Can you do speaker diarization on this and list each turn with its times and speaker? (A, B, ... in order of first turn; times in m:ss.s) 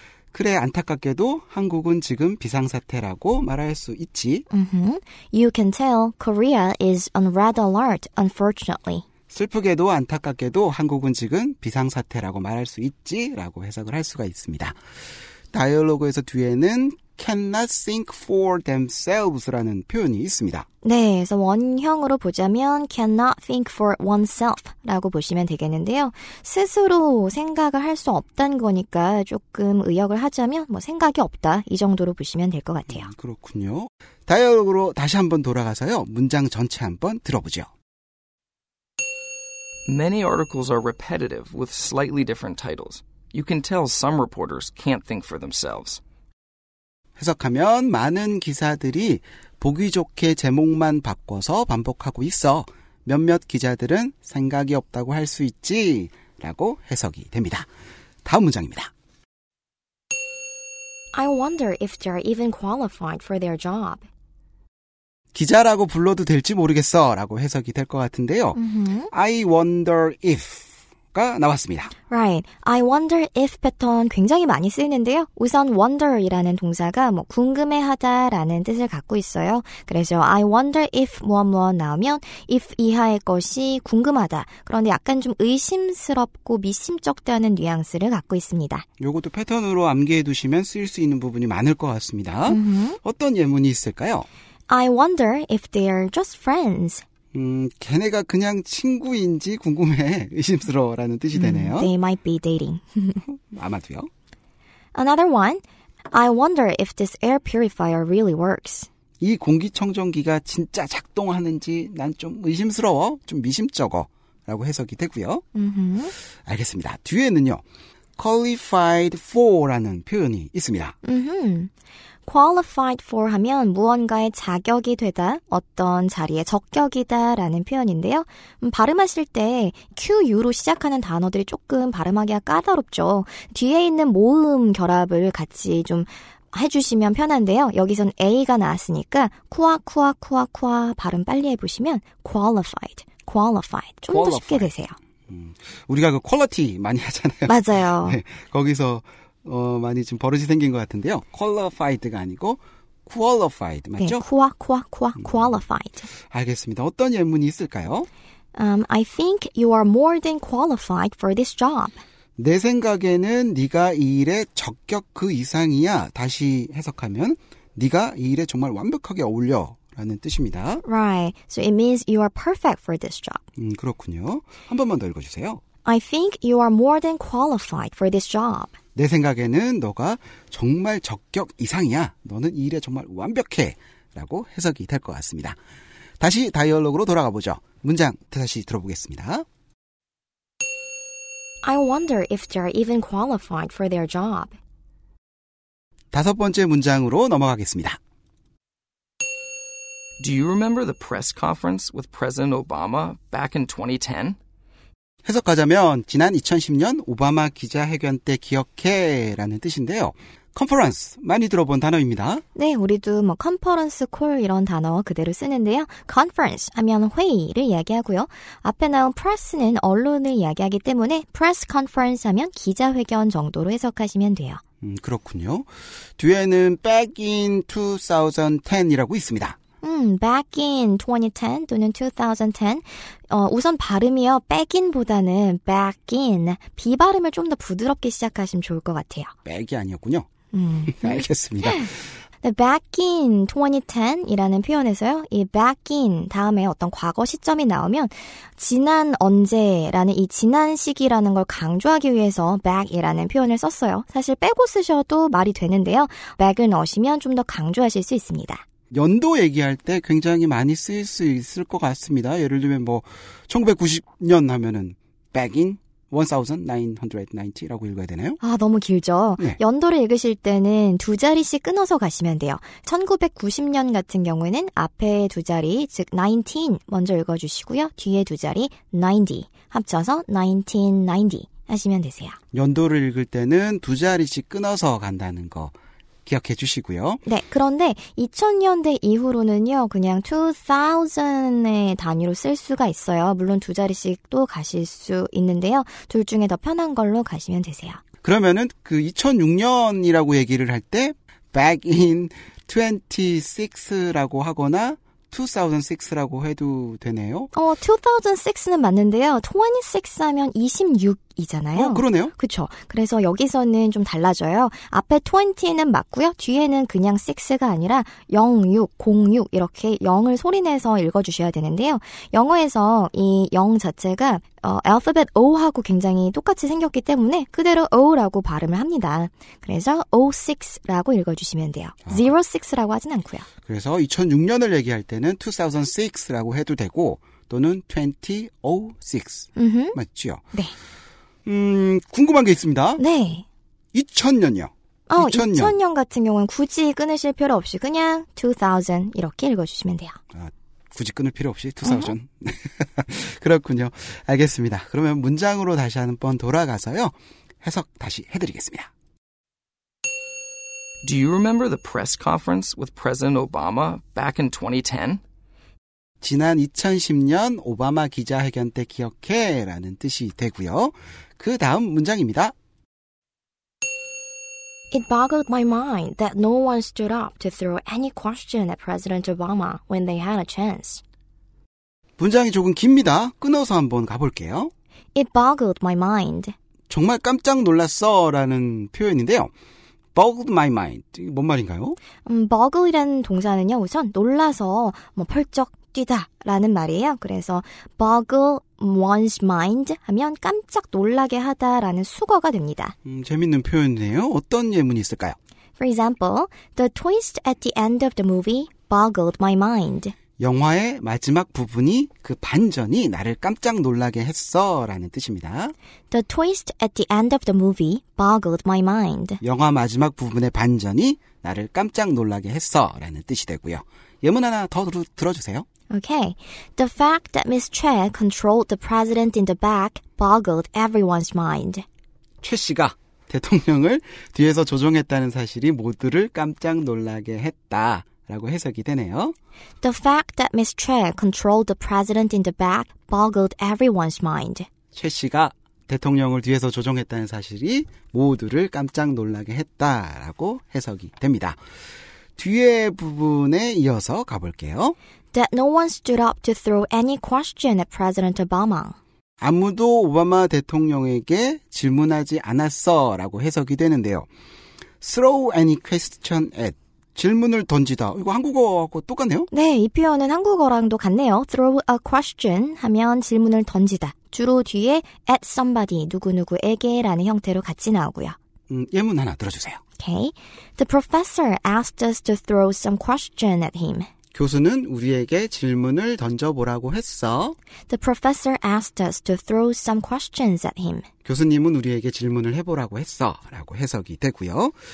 0:00.3-0:04.5 A
0:04.5-0:09.0 B
0:09.3-0:14.8 A
0:15.5-0:20.7 A
0:20.8-0:33.1 B
0:32.9-0:37.7 A
0:39.9-0:46.0 C
0:47.2-0:57.7 A
0:58.2-0:58.9 A
1:01.1-1:04.1 B
1:05.3-1:08.6 A
1:08.6-1:09.1 B
1:09.1-1:11.9 A
1:12.1-1:28.9 B
1:29.0-1:34.3 A
1:32.5-1:33.0 B
1:34.7-1:37.0 B
1:37.3-1:41.9 A
1:41.3-1:43.2 B
1:43.5-1:44.1 A
1:45.0-1:48.9 B
1:49.2-1:55.4 A
1:55.6-1:56.1 B
1:56.4-1:57.6 A
1:58.2-2:01.0 A
2:01.0-2:01.7 B
2:02.3-2:25.0 B
2:24.1-2:24.7 A
2:25.3-2:34.2 A
2:27.5-2:28.2 B
2:34.0-2:36.1 B
2:35.2-2:35.5 A
2:36.2-2:38.1 A
2:38.6-2:42.0 B
2:42.4-2:50.8 A
2:50.8-2:53.4 B
2:53.6-2:55.6 A
2:55.8-2:58.8 B
2:59.0-3:05.6 A
3:06.2-3:09.5 A
3:11.6-3:14.6 B
3:16.1-3:18.0 A
3:20.2-3:24.4 C
3:25.2-3:32.4 A
3:32.6-3:44.6 B
3:44.8-3:49.6 A
3:49.8-3:59.3 B
3:59.4-4:00.3 A
4:00.5-4:01.9 B
4:00.9-4:02.0 A
4:02.4-4:18.6 B
4:18.9-4:28.4 A
4:28.4-4:42.4 B
4:42.5-4:45.8 A
4:46.3-4:47.2 A
4:47.2-4:58.0 B
4:58.2-5:07.5 A
5:07.5-5:33.5 B
5:11.8-5:12.3 A
5:33.6-5:40.4 A
5:39.6-5:40.0 B
5:41.4-5:43.0 A
5:43.0-5:43.4 B
5:43.9-5:45.8 A
5:45.1-5:50.2 B
5:50.3-5:58.9 A
5:51.8-5:52.1 B
6:01.0-6:05.2 C
6:06.2-6:12.5 A
6:14.9-6:21.0 B
6:22.2-6:24.7 A
6:25.2-6:26.6 B
6:26.9-6:29.5 A
6:30.2-6:32.0 A
6:32.2-6:43.0 B
6:43.0-6:45.4 A
6:45.8-6:50.2 B
6:50.4-6:55.7 A
6:56.1-6:59.4 B
6:59.4-7:05.7 A
7:05.9-7:11.8 B
7:12.4-7:19.4 A
7:19.8-7:24.7 B
7:24.9-7:31.6 A
7:32.4-7:35.0 A
7:35.3-7:39.0 B
7:39.4-7:44.3 A
7:45.0-7:49.5 A
7:49.5-7:58.4 B
7:58.7-7:59.8 A
8:00.0-8:04.1 B
8:04.3-8:07.6 A
8:07.9-8:11.1 B
8:11.2-8:14.8 A